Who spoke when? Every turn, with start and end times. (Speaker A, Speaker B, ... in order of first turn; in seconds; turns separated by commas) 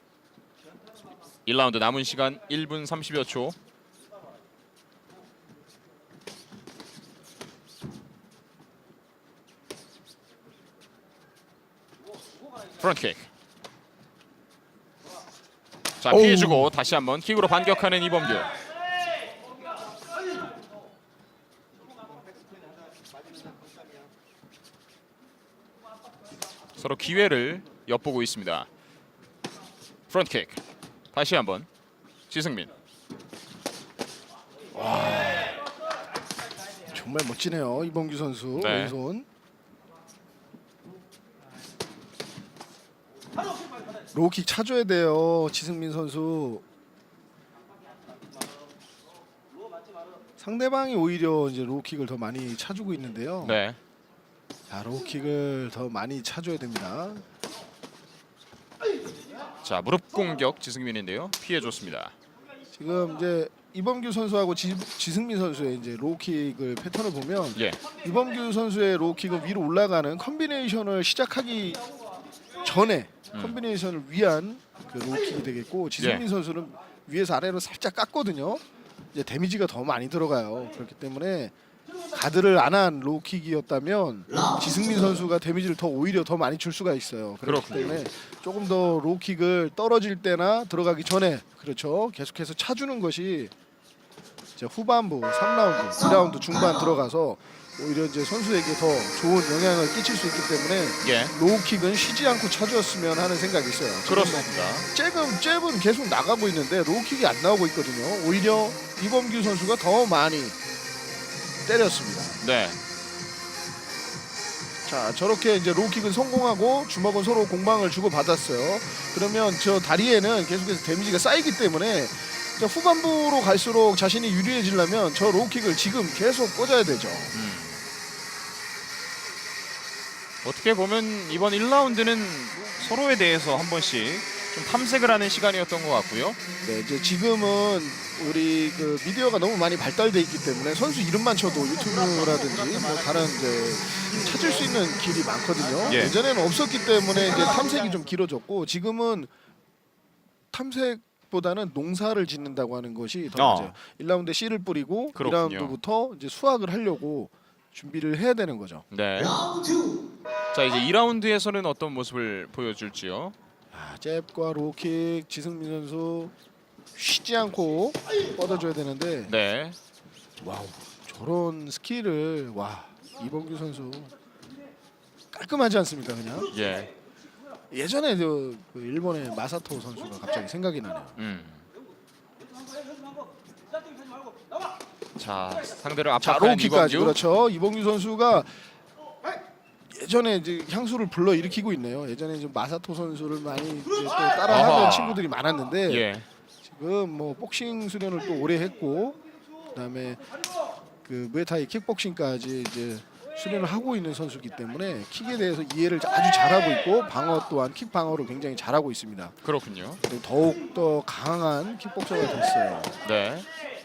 Speaker A: 1.4-3.5, Speaker A: 12.8-13.3, Speaker A: 16.0-18.5, Speaker B: 16.1-16.7, Speaker A: 26.8-28.7, Speaker A: 30.1-30.6, Speaker A: 31.1-31.7, Speaker A: 32.3-32.7, Speaker B: 34.7-35.6, Speaker B: 36.9-39.2, Speaker A: 38.5-39.0, Speaker B: 44.1-46.6, Speaker B: 50.4-53.6, Speaker A: 53.4-53.8, Speaker B: 54.7-57.2, Speaker A: 59.6-62.1, Speaker B: 62.7-71.8, Speaker B: 72.6-78.6, Speaker A: 73.3-73.6, Speaker A: 76.0-76.2, Speaker B: 79.1-81.5, Speaker B: 82.1-93.5, Speaker C: 84.3-85.1, Speaker A: 87.4-88.0, Speaker B: 94.6-110.5, Speaker C: 95.9-96.9, Speaker A: 101.0-101.3, Speaker A: 104.1-104.9, Speaker B: 111.6-112.4, Speaker A: 112.4-112.8, Speaker B: 114.8-127.3, Speaker A: 127.3-127.8, Speaker A: 130.4-136.4, Speaker B: 136.6-149.3, Speaker A: 145.9-146.2, Speaker B: 150.5-158.8, Speaker A: 153.3-153.7, Speaker A: 155.1-155.8, Speaker A: 158.9-159.3, Speaker C: 159.2-160.1, Speaker A: 160.5-163.3, Speaker B: 163.7-166.3, Speaker B: 166.9-169.3, Speaker A: 169.2-169.8, Speaker B: 170.4-174.1, Speaker B: 175.3-176.5, Speaker A: 176.5-176.9, Speaker B: 177.7-181.2, Speaker A: 181.2-181.6, Speaker A: 185.2-187.2, Speaker B: 186.2-188.6, Speaker B: 189.9-196.1, Speaker A: 194.5-195.2, Speaker A: 195.9-196.2, Speaker B: 196.6-199.2, Speaker B: 199.7-200.2, Speaker B: 201.1-209.4, Speaker A: 209.4-210.0, Speaker B: 210.0-212.9, Speaker A: 213.0-213.5